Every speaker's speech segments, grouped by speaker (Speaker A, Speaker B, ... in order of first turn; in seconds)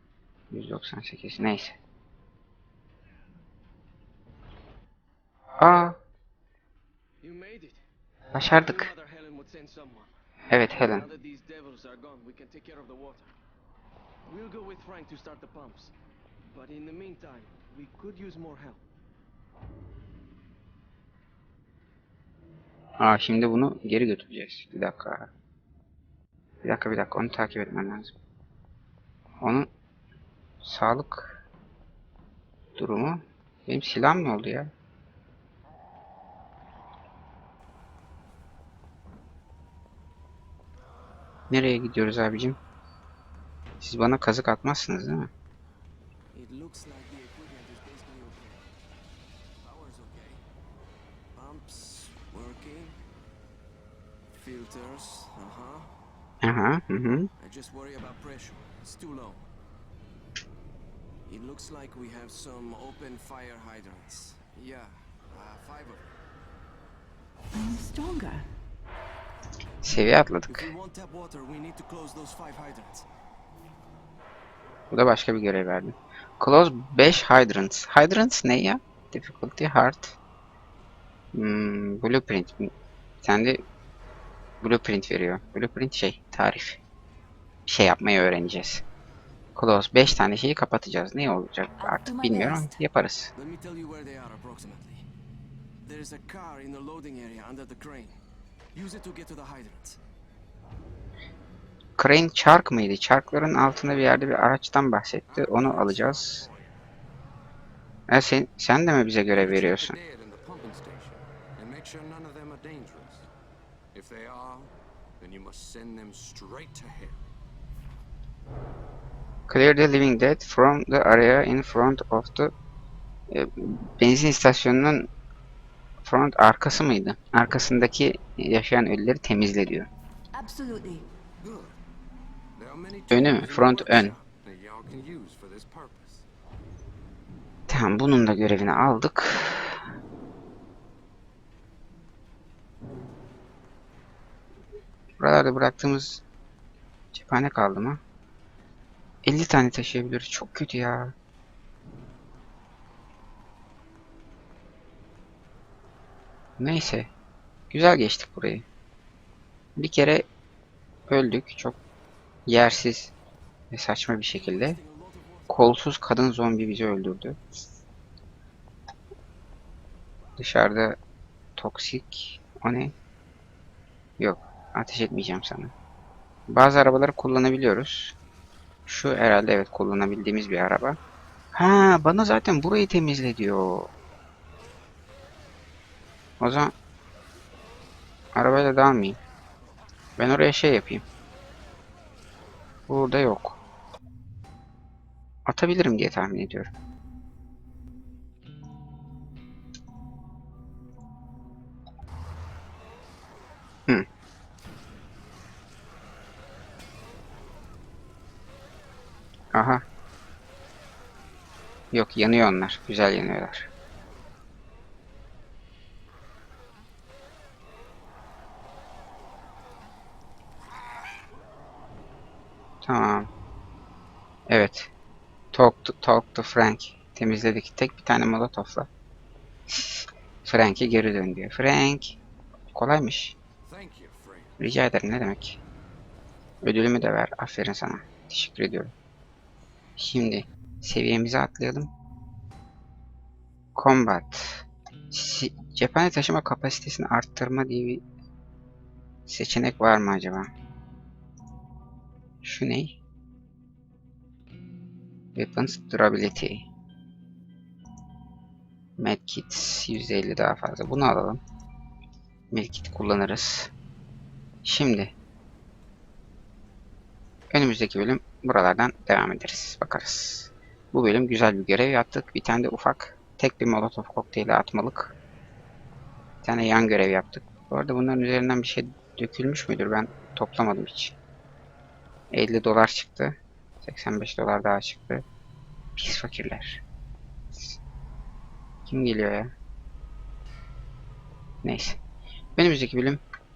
Speaker A: 0.5-1.8, 5.6-6.0, 8.3-8.9, 10.5-11.1, 23.0-25.3, 26.6-28.1, 29.4-29.7, 30.6-31.4, 32.8-34.7, 41.5-42.6, 43.8-45.3, 56.4-57.3, 69.8-70.7, 74.9-80.2, 81.3-82.7, 83.2-83.6, 84.6-86.8, 87.7-88.8, 89.6-93.3, 102.0-106.5, 108.1-110.0, 119.5-122.5, 123.3-125.1, 126.0-129.9, 133.1-134.2, 137.7-139.8, 145.2-146.2, 147.1-148.0, 149.2-151.2, 156.6-157.1, 157.7-158.7, 159.8-160.3, 161.1-161.8, 162.5-163.1, 163.7-164.8, 165.5-167.4, 170.4-171.0, 171.6-172.9, 174.2-175.7, 176.5-178.2, 178.9-181.0, 181.5-183.9, 186.4-186.7, 188.3-189.2, 190.2-191.0, 192.9-193.6, 195.5-196.7, 209.5-209.8, 211.9-213.7, 222.8-223.3, 224.5-224.9, 225.5-228.9, 229.7-232.2, 232.7-233.4, 234.6-235.6, 236.6-238.9, 240.0-241.9, 243.8-248.0, 249.3-250.5, 252.4-253.0, 255.4-256.7, 259.0-261.4, 262.5-263.7, 264.6-265.1, 267.5-275.1, 276.4-281.2, 282.3-285.2, 286.0-286.8, 288.9-289.5, 291.6-292.0, 292.6-293.2
Speaker B: 7.2-7.8, 8.5-10.1, 10.9-13.3, 14.3-15.9, 16.5-18.8, 46.3-48.7, 49.6-50.4, 51.3-53.0, 54.3-55.9, 57.4-59.5, 61.3-66.1, 70.5-73.0, 93.4-95.1, 95.8-98.2, 98.7-100.0, 164.3-165.8
Speaker C: 67.5-68.5, 91.8-92.8, 130.4-131.0
Speaker D: 105.3-106.8, 109.3-113.3, 113.9-117.2, 131.4-131.8, 132.6-136.3, 233.6-234.7